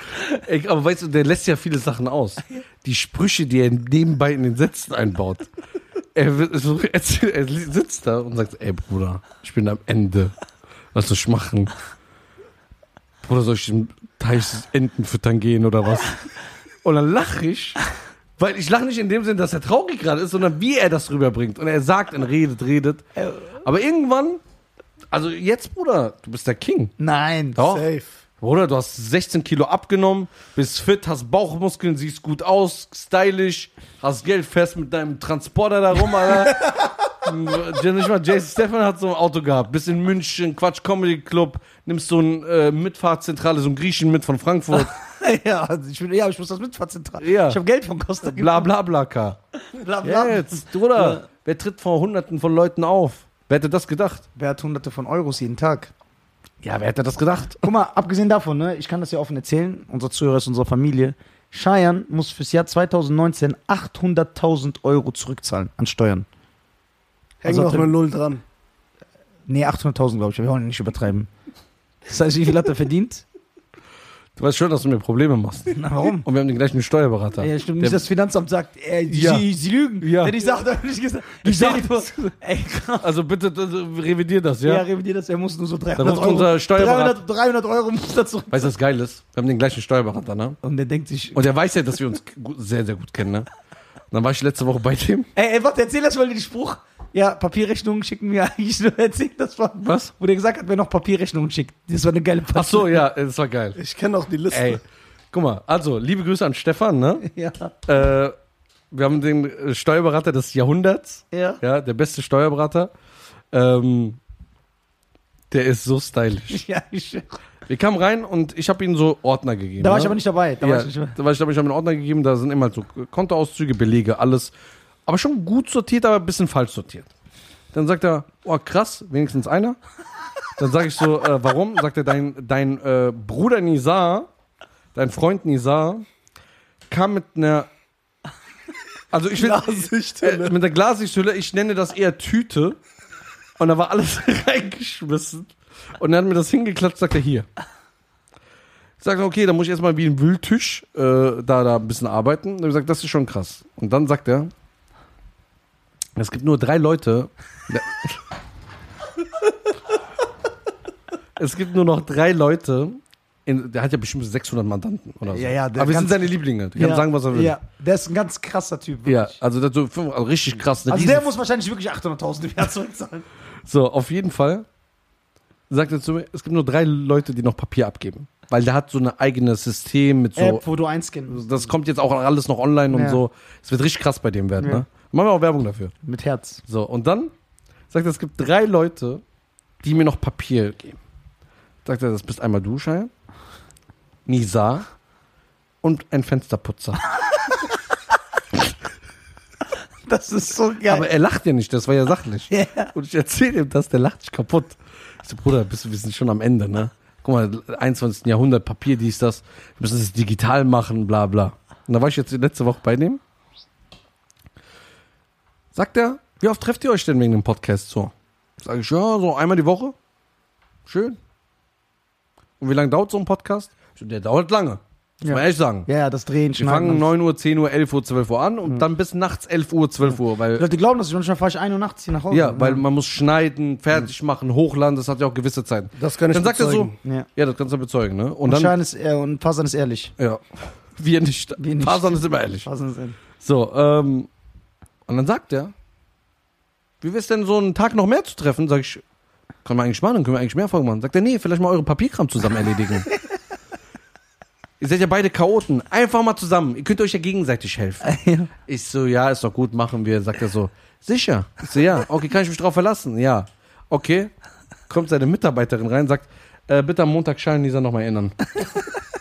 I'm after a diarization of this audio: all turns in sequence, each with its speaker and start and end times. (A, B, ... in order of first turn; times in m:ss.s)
0:00.4-0:05.5 A
0:06.1-0:10.4 A
0:10.9-0:11.7 A
0:13.2-0:16.2 A
0:16.8-0:17.8 A
0:18.4-0:23.0 A
0:23.2-0:23.5 B
0:23.6-0:24.4 A
0:25.1-0:26.9 A
0:27.0-0:27.6 B
0:27.6-0:27.8 A
0:27.6-0:28.2 C
0:28.4-0:44.9 A
0:44.7-0:48.7 B
0:47.2-0:47.6 A
0:48.2-0:49.4 A
0:49.6-0:51.2 B
0:50.0-0:54.2 A
0:54.4-0:55.9 B
0:56.6-0:57.6 A
0:57.6-1:06.2 B
1:07.4-1:08.4 C
1:07.4-1:07.9 B
1:09.5-1:11.3 B
1:12.1-1:13.2 B
1:14.4-1:18.0 A
1:15.7-1:16.2 B
1:17.4-1:23.1 B
1:19.1-1:19.4 A
1:20.0-1:20.3 A
1:21.4-1:22.3 A
1:23.0-1:24.8 A
1:24.6-1:28.7 B
1:26.0-1:27.2 A
1:28.5-1:30.6 A
1:30.6-1:31.4 B
1:31.3-1:33.5 A
1:34.1-1:35.3 A
1:35.3-1:43.0 B
1:39.8-1:40.1 A
1:42.5-1:43.8 A
1:43.8-1:44.8 C
1:44.5-1:47.2 A
1:47.2-1:47.7 B
1:47.8-1:48.3 A
1:48.9-1:52.9 A
1:51.3-1:51.6 B
1:53.5-1:54.2 A
1:55.5-1:56.6 A
1:56.5-1:57.4 B
1:57.7-2:04.5 A
1:59.8-2:01.2 B
2:05.1-2:07.1 A
2:07.7-2:09.8 A
2:10.6-2:14.3 A
2:14.9-2:16.0 A
2:16.9-2:17.7 A
2:19.1-2:22.8 A
2:19.3-2:20.6 C
2:23.6-2:27.4 A
2:29.0-2:34.5 A
2:36.2-2:38.2 A
2:41.4-2:47.6 A
2:45.3-2:49.3 B
2:49.0-2:51.3 A
2:50.9-2:53.2 B
2:53.6-2:54.6 A
2:55.7-3:00.6 A
3:00.4-3:01.7 B
3:01.3-3:05.9 A
3:02.9-3:03.2 B
3:06.0-3:06.6 B
3:06.7-3:07.3 A
3:07.9-3:09.2 A
3:09.8-3:11.0 A
3:11.8-3:13.1 A
3:14.2-3:14.8 A
3:15.8-3:17.0 A
3:20.1-3:21.0 B
3:20.9-3:33.2 A
3:22.5-3:22.9 B
3:35.7-3:39.9 A
3:40.9-3:41.2 A
3:42.6-3:45.9 A
3:45.2-3:47.1 B
3:46.5-3:50.6 A
3:50.0-3:52.8 B
3:52.3-3:58.7 A
3:56.0-3:56.9 C
3:57.0-3:57.3 B
3:58.5-4:00.1 B
4:00.2-4:02.7 A
4:01.6-4:03.2 B
4:03.4-4:04.3 A
4:05.1-4:05.7 A
4:07.0-4:09.0 A
4:09.6-4:13.1 A
4:14.8-4:18.1 A
4:18.0-4:18.5 B
4:18.6-4:24.3 A
4:24.9-4:28.6 A